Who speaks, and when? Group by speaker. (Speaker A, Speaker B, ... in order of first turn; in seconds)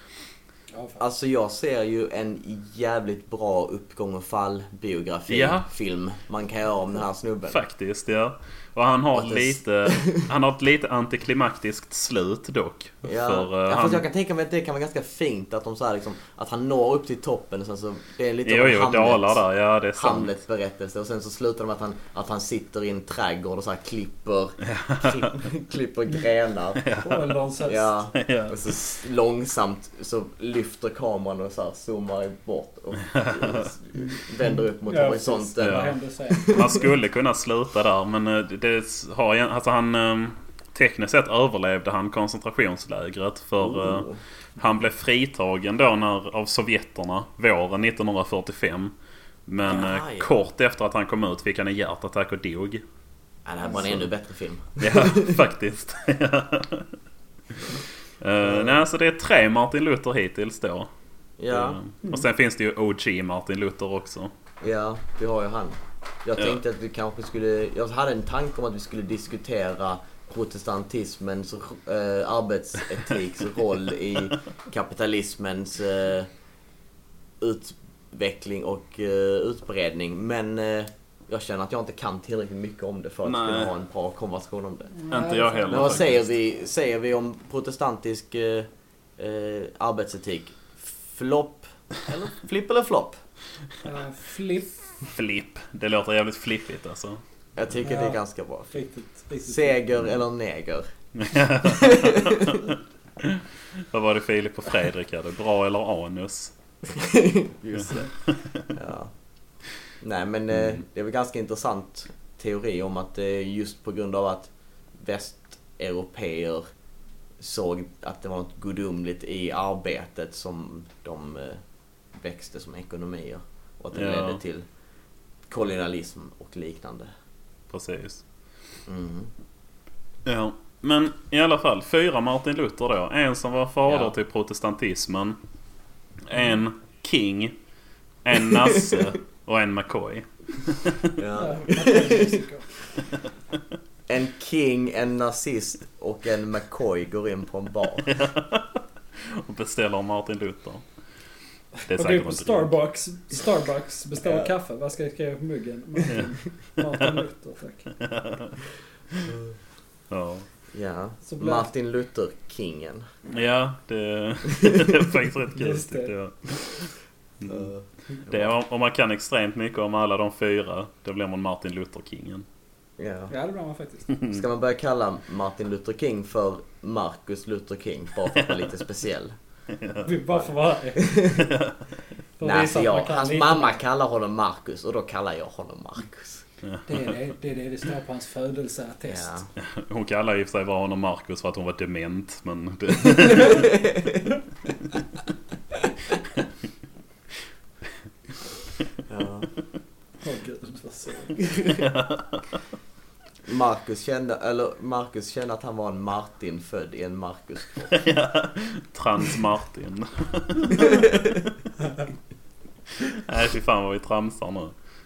Speaker A: 0.7-1.0, 27.0-27.9, 34.9-36.6, 85.0-86.0, 93.8-94.7, 97.8-98.2, 98.7-99.8, 141.4-142.7, 151.9-157.9, 161.2-161.7, 165.6-166.1, 173.3-174.1, 180.0-181.1, 182.4-183.8, 186.9-189.4, 200.2-201.4
Speaker B: 1.0-7.6, 9.1-10.2, 13.0-19.4, 20.0-26.8, 27.6-36.8, 43.6-44.2, 49.6-50.3, 53.5-55.4, 58.4-58.8, 61.4-61.8, 64.6-76.3, 77.4-84.9, 85.7-93.2, 97.6-98.7, 99.4-100.9, 101.6-102.7, 106.8-108.1, 108.7-109.1, 110.0-116.7, 117.4-121.6, 122.2-124.7, 125.5-127.1, 128.9-129.3, 133.9-134.1, 141.2-142.4, 144.1-148.1, 154.2-154.5, 160.7-163.1, 164.6-165.0, 167.5-168.5, 173.0-173.3, 174.3-179.3, 181.0-181.6, 182.4-186.4, 189.1-189.5, 193.5-194.2, 199.1-199.5, 203.5-207.9, 210.7-211.4
Speaker C: 5.3-5.7, 7.5-14.0, 18.4-20.3, 24.6-25.3, 26.8-27.4, 28.1-28.6, 33.0-33.7, 35.6-48.9, 49.5-52.8, 54.8-56.9, 58.2-60.9, 61.5-64.3, 83.2-83.7, 85.1-86.3, 95.0-97.2, 101.2-106.5, 107.9-108.7, 123.9-124.4, 127.7-128.2, 130.3-135.4, 136.2-137.6, 138.2-141.1, 148.1-150.8, 151.9-152.7, 158.0-158.6, 160.1-160.5, 163.3-167.7, 168.3-172.4, 174.1-174.4, 179.7-180.2, 186.6-187.1, 189.6-193.8, 201.7-202.6, 207.9-211.0, 213.0-214.7